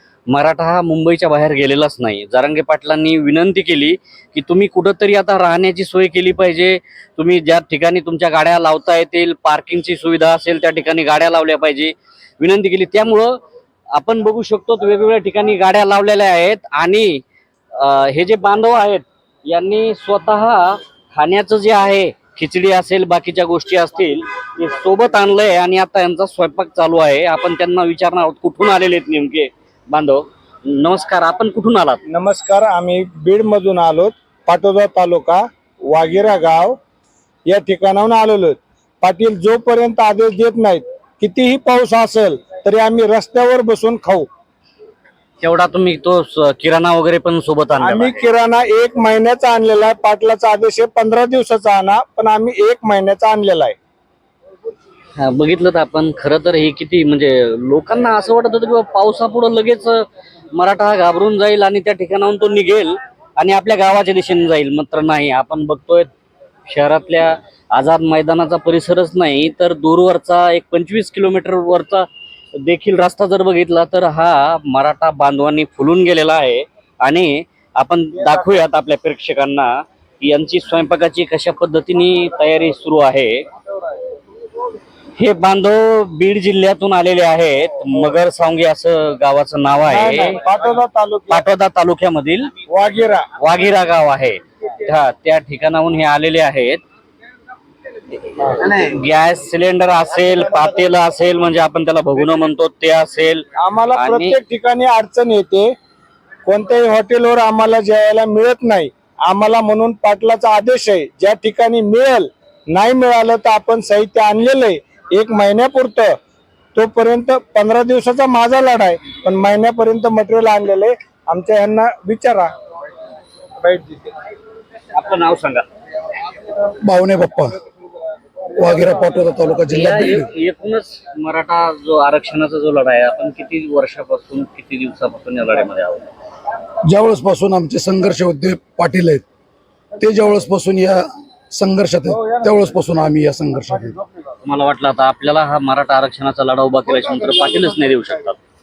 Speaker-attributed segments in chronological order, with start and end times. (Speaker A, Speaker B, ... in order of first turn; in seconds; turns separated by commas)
Speaker A: 0.3-13.4, Speaker A: 13.9-17.2, Speaker A: 17.8-32.0, Speaker B: 32.1-36.8, Speaker B: 37.5-44.3, Speaker A: 45.4-48.3, Speaker B: 47.8-53.8, Speaker A: 55.2-66.1, Speaker A: 66.7-83.5, Speaker A: 85.2-90.4, Speaker B: 89.9-91.4, Speaker A: 91.3-92.5, Speaker B: 92.7-93.3, Speaker A: 93.4-96.8, Speaker A: 98.3-104.4, Speaker B: 103.6-105.7, Speaker B: 106.5-116.2, Speaker B: 116.8-122.5, Speaker A: 124.9-125.7, Speaker C: 126.8-127.6, Speaker C: 128.5-130.3, Speaker A: 129.7-136.1, Speaker C: 136.9-139.2, Speaker C: 140.0-144.0, Speaker A: 144.4-148.4